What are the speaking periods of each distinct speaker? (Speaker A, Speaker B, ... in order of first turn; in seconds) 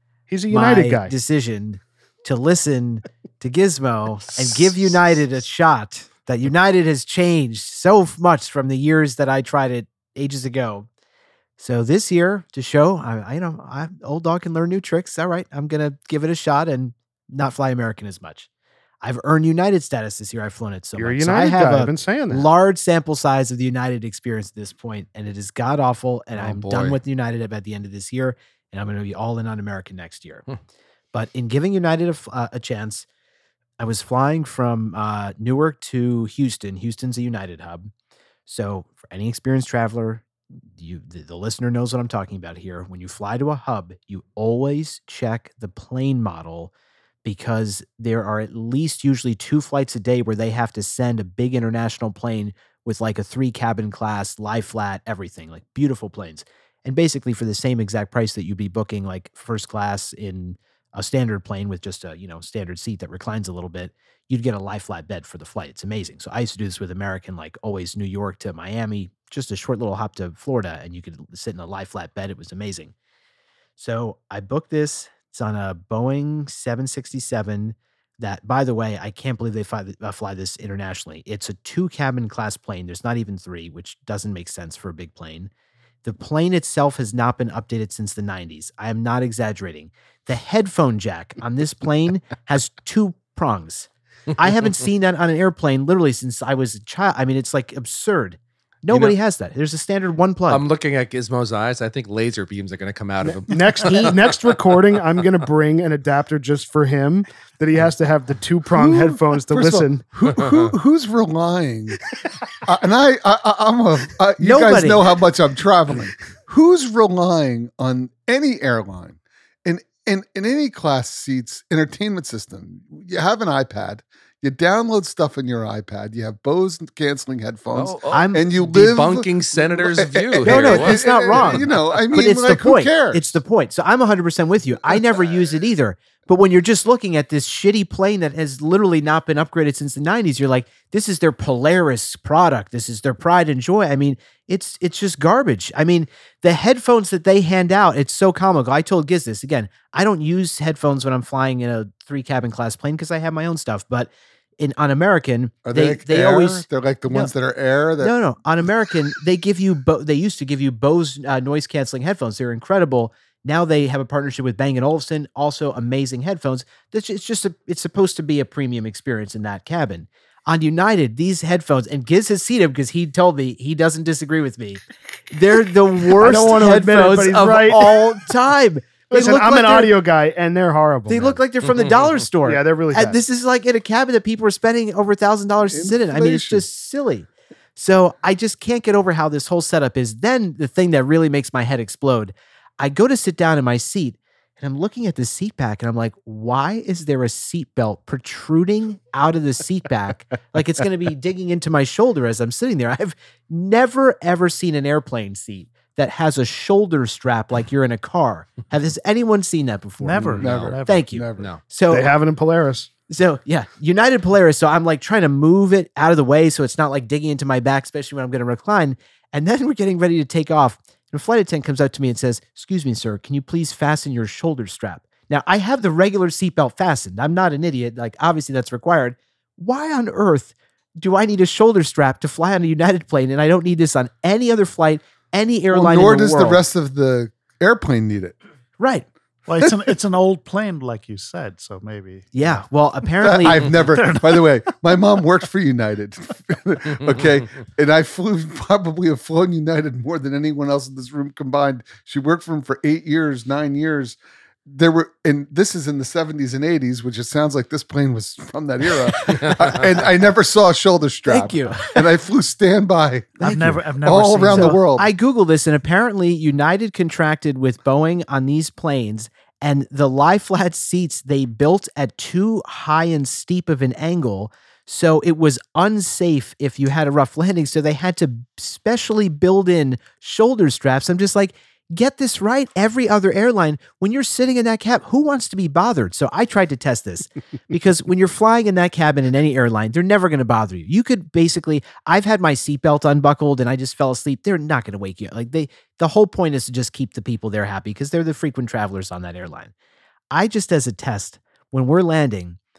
Speaker A: 0.3-1.1, 21.0-22.5, 103.3-110.0, 176.2-177.9, 179.1-181.4, 182.4-183.2, 211.9-212.9
Speaker B: 0.5-10.9, 11.6-18.5, 19.0-30.4, 31.1-33.1, 33.8-37.9, 38.5-46.7, 47.2-72.9, 73.8-85.5, 86.0-100.6, 114.4-115.1, 128.1-128.6, 130.4-157.3, 158.0-179.9, 181.1-212.1, 213.1-236.6, 238.8-239.1, 242.3-243.8, 261.3-262.1, 263.4-263.8, 264.5-299.7, 300.3-302.6
Speaker C: 26.3-27.0, 98.9-99.2, 100.5-104.3, 127.7-131.7, 181.7-182.1, 210.4-210.8
Speaker D: 108.7-112.0, 112.6-133.4, 155.7-158.2, 185.7-186.7, 210.4-211.5, 235.7-238.4, 239.6-239.9, 243.2-265.1
Speaker E: 210.0-211.1, 239.5-242.7, 243.7-244.5, 263.4-264.8